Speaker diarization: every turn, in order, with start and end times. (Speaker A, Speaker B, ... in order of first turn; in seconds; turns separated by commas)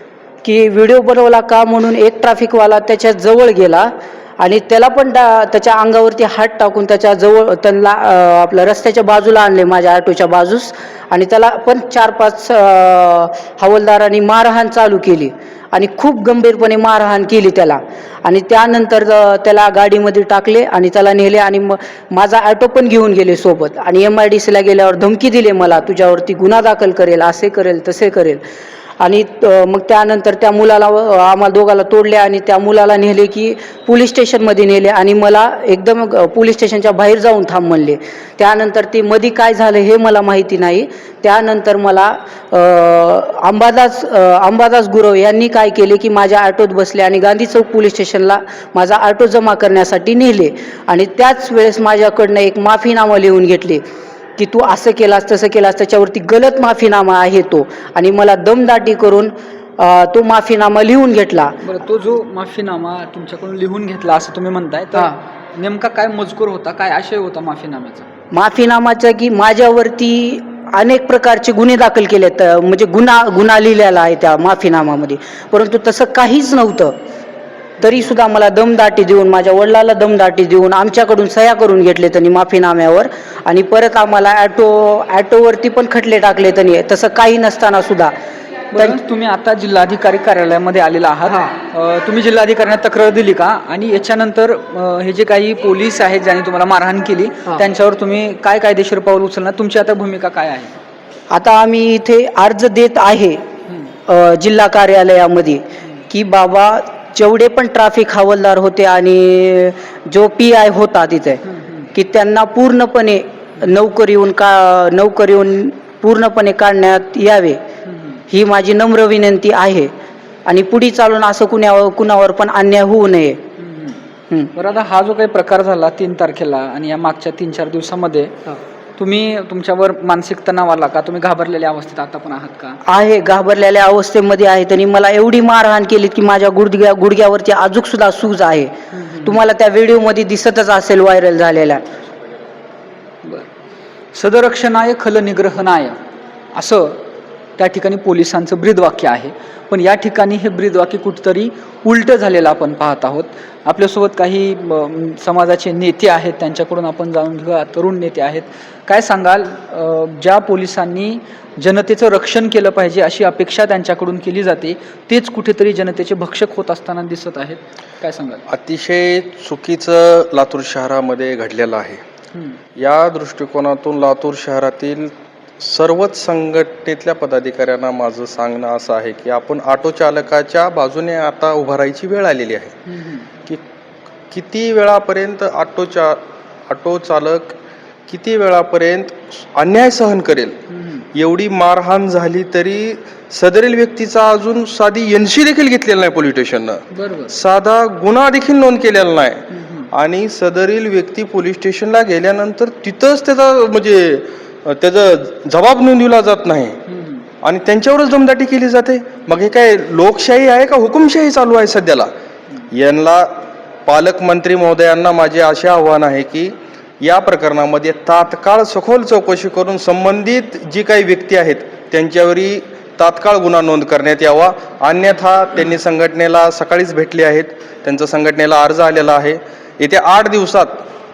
Speaker A: 0.4-28.4, Speaker A: 29.0-53.8, Speaker A: 54.4-61.6, Speaker B: 61.6-68.1, Speaker A: 68.3-76.9, Speaker A: 77.8-88.1, Speaker B: 88.7-100.8, Speaker A: 101.3-103.4, Speaker A: 104.1-117.6, Speaker B: 111.5-111.9, Speaker B: 117.9-118.2, Speaker A: 118.3-119.9, Speaker A: 120.5-123.4, Speaker B: 123.6-124.0, Speaker B: 124.5-132.8, Speaker A: 132.9-138.7, Speaker B: 138.9-139.3, Speaker A: 139.2-141.8, Speaker B: 144.1-146.0, Speaker B: 146.5-147.0, Speaker B: 147.6-168.4, Speaker C: 168.5-172.0, Speaker C: 172.8-182.8, Speaker B: 182.9-183.3, Speaker C: 184.3-187.6, Speaker C: 188.1-190.6, Speaker B: 190.7-191.0, Speaker C: 191.1-206.8, Speaker B: 196.9-197.3, Speaker B: 199.6-199.8, Speaker B: 206.9-207.2, Speaker C: 207.4-212.1, Speaker C: 212.7-230.8